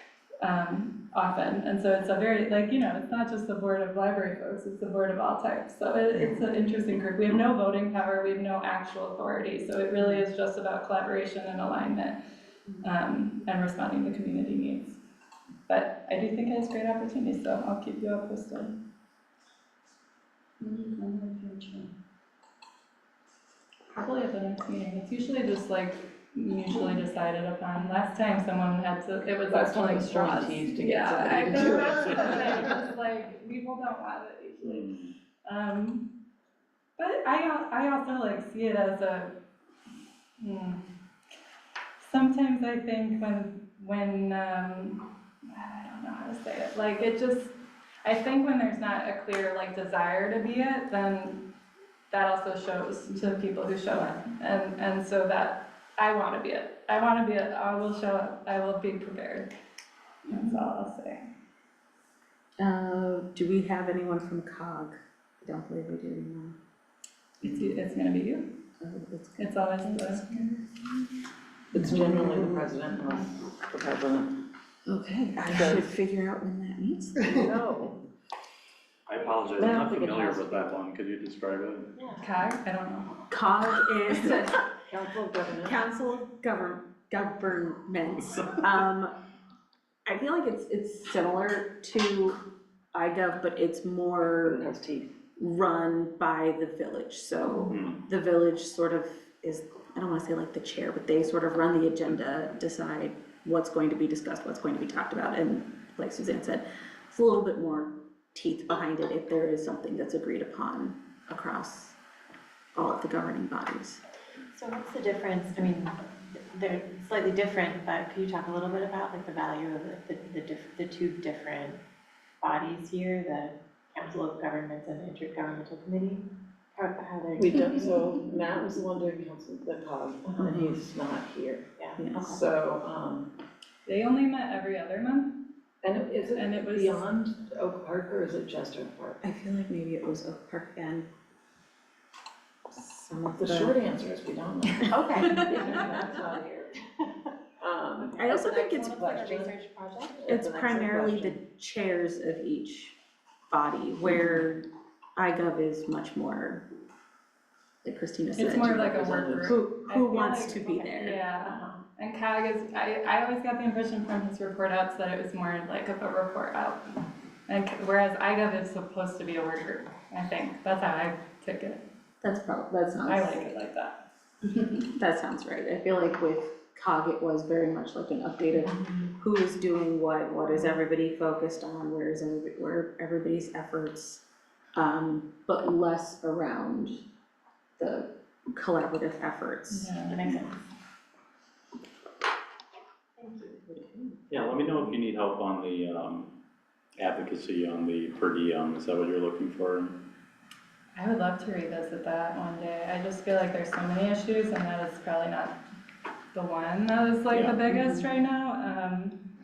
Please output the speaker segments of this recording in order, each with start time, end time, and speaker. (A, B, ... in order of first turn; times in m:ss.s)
0:00.4-0:12.2 A
0:12.8-0:15.0 A
0:15.7-0:18.7 A
0:20.6-0:21.9 A
0:23.9-0:34.9 A
0:29.5-0:32.5 B
0:31.6-0:32.4 C
0:34.6-0:35.1 C
0:35.4-0:36.1 A
0:37.0-0:39.3 A
0:40.4-0:40.8 A
0:42.0-0:51.4 A
0:52.1-0:59.5 A
0:53.9-0:54.2 D
1:00.3-1:00.6 D
1:00.3-1:01.3 A
1:02.6-1:06.6 D
1:07.4-1:08.5 A
1:08.8-1:11.1 D
1:09.4-1:10.4 A
1:11.7-1:14.3 B
1:11.7-1:12.7 D
1:14.8-1:17.5 D
1:15.5-1:15.8 B
1:17.2-1:18.0 B
1:19.1-1:21.9 C
1:19.4-1:20.8 B
1:22.0-1:22.4 B
1:22.2-1:23.2 A
1:23.3-1:24.6 D
1:24.9-1:25.8 B
1:25.6-1:29.1 D
1:30.0-1:32.4 D
1:32.9-1:34.6 D
1:34.4-1:35.1 B
1:35.4-1:52.0 D
1:37.7-1:38.0 C
1:52.7-1:54.0 D
1:54.5-2:01.8 E
2:02.4-2:08.3 E
2:07.4-2:13.3 B
2:11.8-2:12.2 E
2:12.0-2:12.4 D
2:13.8-2:15.4 A
2:15.8-2:19.2 B
2:16.2-2:17.0 A
2:19.2-2:21.1 D
2:22.7-2:23.8 D
2:23.4-2:26.7 B
2:24.8-2:26.3 E
2:27.6-2:28.3 B
2:28.0-2:30.1 E
2:28.2-2:29.1 D
2:28.8-2:31.4 B
2:30.3-2:33.0 D
2:33.5-2:36.6 D
2:37.8-2:38.8 D
2:38.4-2:51.8 A
2:38.7-2:39.5 B
2:39.4-2:41.2 D
2:41.4-2:41.8 B
2:52.2-2:53.4 D
2:53.0-2:54.0 A
2:54.9-3:04.2 D
3:04.7-3:07.0 D
3:07.8-3:10.4 D
3:09.7-3:10.2 A
3:10.1-3:10.5 E
3:13.2-3:14.2 E
3:14.3-3:16.3 C
3:17.0-3:20.0 C
3:20.9-3:25.6 A
3:26.3-3:29.2 A
3:27.3-3:27.7 C